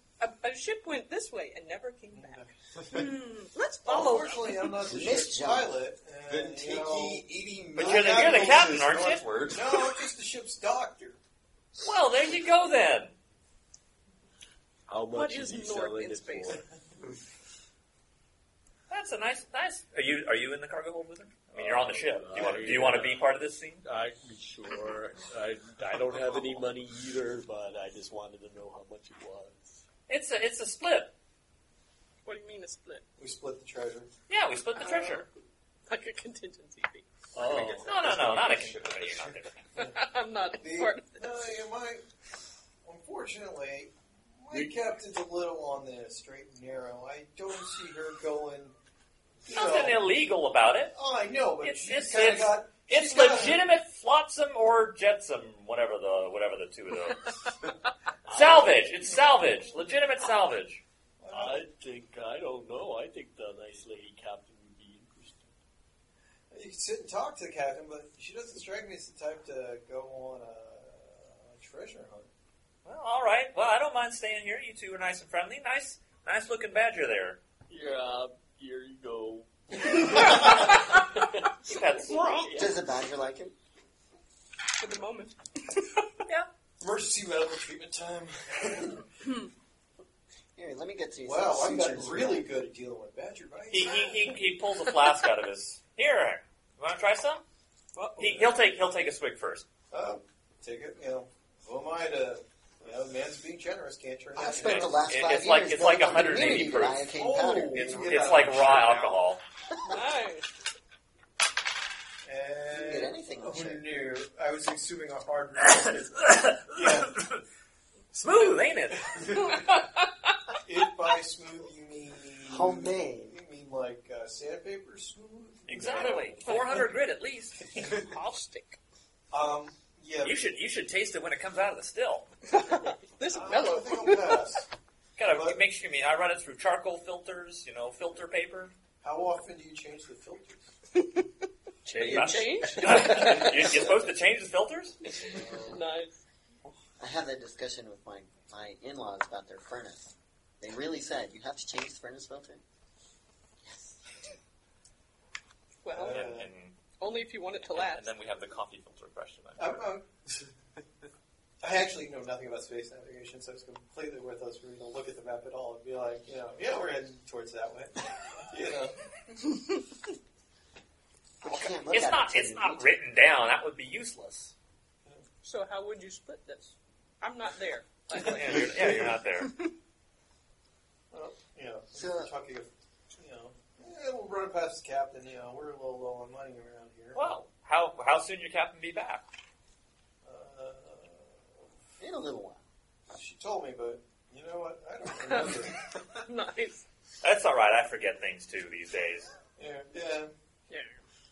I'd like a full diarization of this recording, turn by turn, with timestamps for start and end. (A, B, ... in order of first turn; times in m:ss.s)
0:00.2-0:04.8 A
0:02.1-0:03.1 B
0:03.8-0:08.8 B
0:04.8-0:05.7 C
0:06.3-0:10.1 D
0:07.8-0:09.2 E
0:09.5-0:11.2 B
0:11.8-0:13.2 E
0:14.9-0:16.6 F
0:15.1-0:16.6 A
0:18.9-0:23.8 E
0:21.5-0:29.8 F
0:30.1-0:31.1 E
0:32.2-0:33.0 A
0:33.2-0:34.1 B
0:34.3-0:35.3 E
0:34.8-0:35.2 B
0:35.9-0:37.1 A
0:37.3-0:38.7 F
0:37.4-0:39.3 D
0:37.8-0:39.6 E
0:39.8-0:41.5 A
0:40.6-0:42.0 B
0:42.8-0:48.7 B
0:44.5-0:44.8 F
0:49.4-0:50.1 B
0:49.5-0:50.9 E
0:50.9-0:53.6 B
0:51.6-0:57.3 E
0:58.3-1:00.8 E
0:58.3-0:58.8 F
1:01.2-1:01.6 B
1:01.3-1:05.5 F
1:06.5-1:12.3 B
1:12.8-1:17.4 E
1:17.7-1:21.5 F
1:19.8-1:20.5 B
1:20.4-1:20.9 A
1:21.6-1:22.3 E
1:21.9-1:22.6 A
1:22.1-1:22.7 F
1:22.5-1:23.5 C
1:24.8-1:26.0 A
1:26.8-1:29.1 B
1:30.6-1:32.5 C
1:31.2-1:34.4 B
1:33.7-1:37.4 E
1:38.2-1:38.5 B
1:38.2-1:39.6 E
1:39.9-1:45.1 B
1:44.3-1:48.2 C
1:44.6-1:47.1 E
1:47.1-1:49.1 B
1:47.8-1:49.4 E
1:48.5-1:49.1 D
1:49.8-1:50.5 A
1:52.2-1:57.2 B
1:52.7-1:53.9 C
1:56.1-1:57.4 E
1:58.1-1:59.4 E
1:59.3-2:00.1 A
2:00.6-2:06.8 B
2:02.5-2:03.4 C
2:05.7-2:07.6 E
2:06.0-2:06.9 A
2:07.8-2:08.8 A
2:09.3-2:10.4 B
2:10.2-2:12.3 E
2:12.5-2:14.5 A
2:13.3-2:14.6 B
2:15.2-2:18.7 E
2:15.2-2:15.6 B
2:19.0-2:20.7 B
2:20.9-2:21.3 A
2:21.8-2:24.0 A
2:21.9-2:25.0 E
2:25.1-2:26.2 A
2:27.0-2:32.6 C
2:33.6-2:34.3 C
2:35.8-2:36.3 A
2:35.9-2:36.5 B
2:36.0-2:36.8 E
2:37.0-2:38.1 A
2:37.7-2:39.8 E
2:39.6-2:40.5 B
2:41.6-2:49.0 B
2:51.4-2:52.9 C
2:51.4-2:54.5 E
2:55.4-2:59.7 A
2:58.1-2:59.6 E
2:58.4-2:59.0 B
3:01.1-3:07.4 B
3:01.9-3:02.3 C
3:07.1-3:09.2 E
3:10.2-3:11.4 B
3:12.0-3:12.6 C
3:13.1-3:15.8 B
3:15.2-3:16.8 A
3:17.2-3:19.4 E
3:19.6-3:20.3 B
3:20.7-3:21.0 A